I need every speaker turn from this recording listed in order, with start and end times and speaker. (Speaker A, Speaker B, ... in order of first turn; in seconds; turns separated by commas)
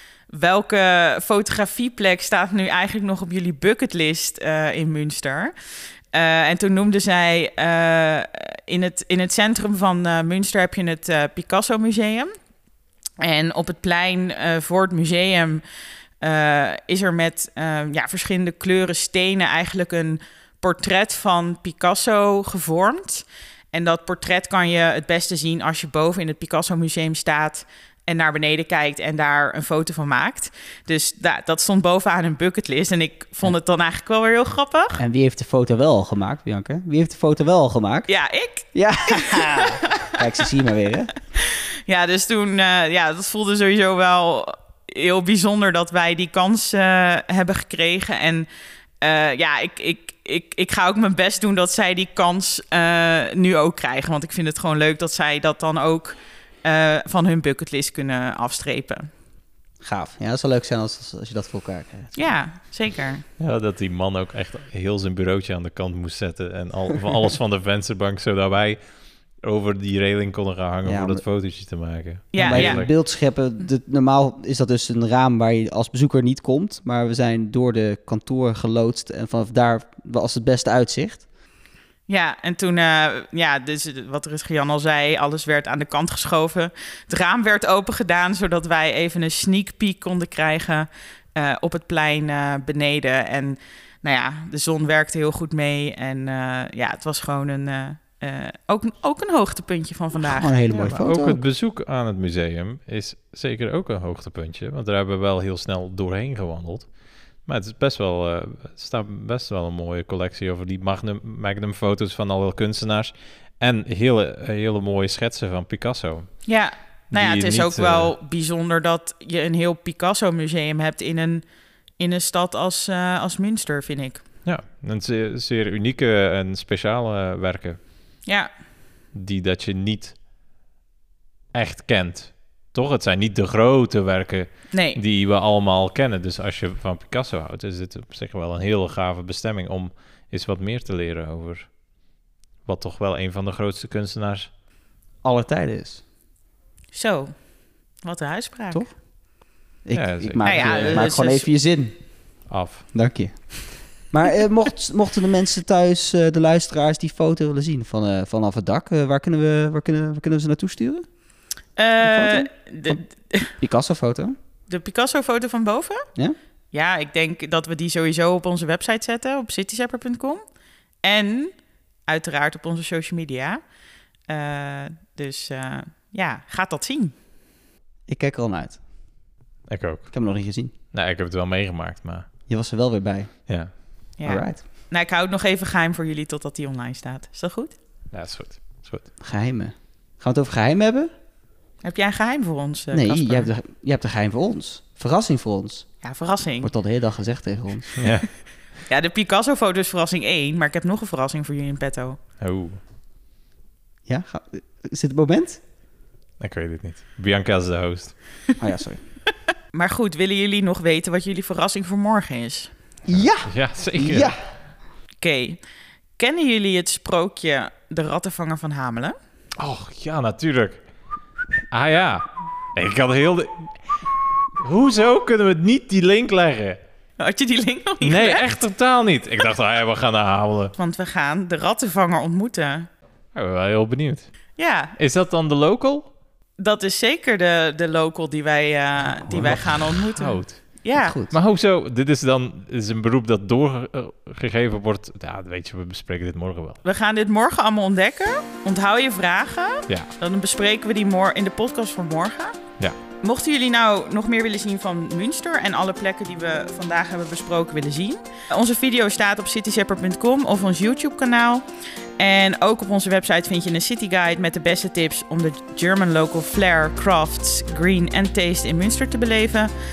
Speaker A: 0.3-5.5, Speaker A: 6.1-12.3, Speaker A: 13.2-15.6, Speaker A: 16.2-35.0, Speaker B: 35.0-41.1, Speaker A: 38.1-39.6, Speaker A: 41.9-48.5, Speaker A: 49.0-59.1, Speaker B: 59.8-62.4, Speaker A: 62.1-63.2, Speaker C: 63.4-72.9, Speaker B: 70.8-71.5, Speaker A: 72.3-72.8, Speaker B: 72.3-81.3, Speaker A: 82.1-100.5, Speaker B: 100.2-101.4, Speaker C: 100.7-118.1, Speaker A: 116.4-124.2, Speaker C: 124.4-127.8, Speaker C: 129.1-130.2, Speaker C: 131.5-141.8, Speaker A: 134.7-135.0, Speaker C: 142.6-144.5, Speaker B: 145.2-146.0, Speaker A: 146.9-148.8, Speaker B: 148.7-149.0, Speaker B: 149.8-152.2, Speaker C: 149.9-151.1, Speaker A: 150.4-151.5, Speaker C: 152.5-152.9, Speaker B: 152.9-161.2, Speaker A: 161.7-163.5, Speaker B: 162.0-164.3, Speaker A: 164.7-166.0, Speaker A: 166.7-170.5, Speaker A: 171.0-173.6, Speaker A: 174.3-177.1, Speaker B: 178.1-178.8, Speaker C: 179.7-180.3, Speaker B: 180.1-180.7, Speaker C: 180.9-182.3, Speaker B: 182.5-184.6, Speaker C: 183.5-183.7, Speaker A: 184.2-187.8, Speaker C: 188.1-189.1, Speaker B: 189.2-191.1, Speaker A: 191.8-193.5, Speaker B: 192.9-197.9, Speaker A: 196.0-196.7, Speaker C: 198.0-198.3, Speaker A: 198.8-202.2, Speaker C: 202.4-202.8, Speaker B: 204.1-205.6, Speaker C: 206.4-208.4, Speaker B: 208.6-209.1, Speaker A: 209.7-212.7, Speaker B: 213.1-214.6, Speaker C: 213.1-214.4, Speaker A: 215.2-215.6, Speaker A: 216.2-219.2, Speaker C: 219.6-220.9, Speaker C: 221.7-226.8, Speaker A: 227.2-228.4, Speaker C: 228.0-230.7, Speaker A: 230.8-232.9, Speaker C: 233.3-236.1, Speaker A: 234.6-234.9, Speaker A: 236.6-241.2, Speaker B: 239.0-239.9, Speaker C: 239.4-246.8, Speaker B: 240.9-241.3, Speaker A: 246.8-252.6, Speaker A: 253.2-261.6, Speaker A: 262.2-269.7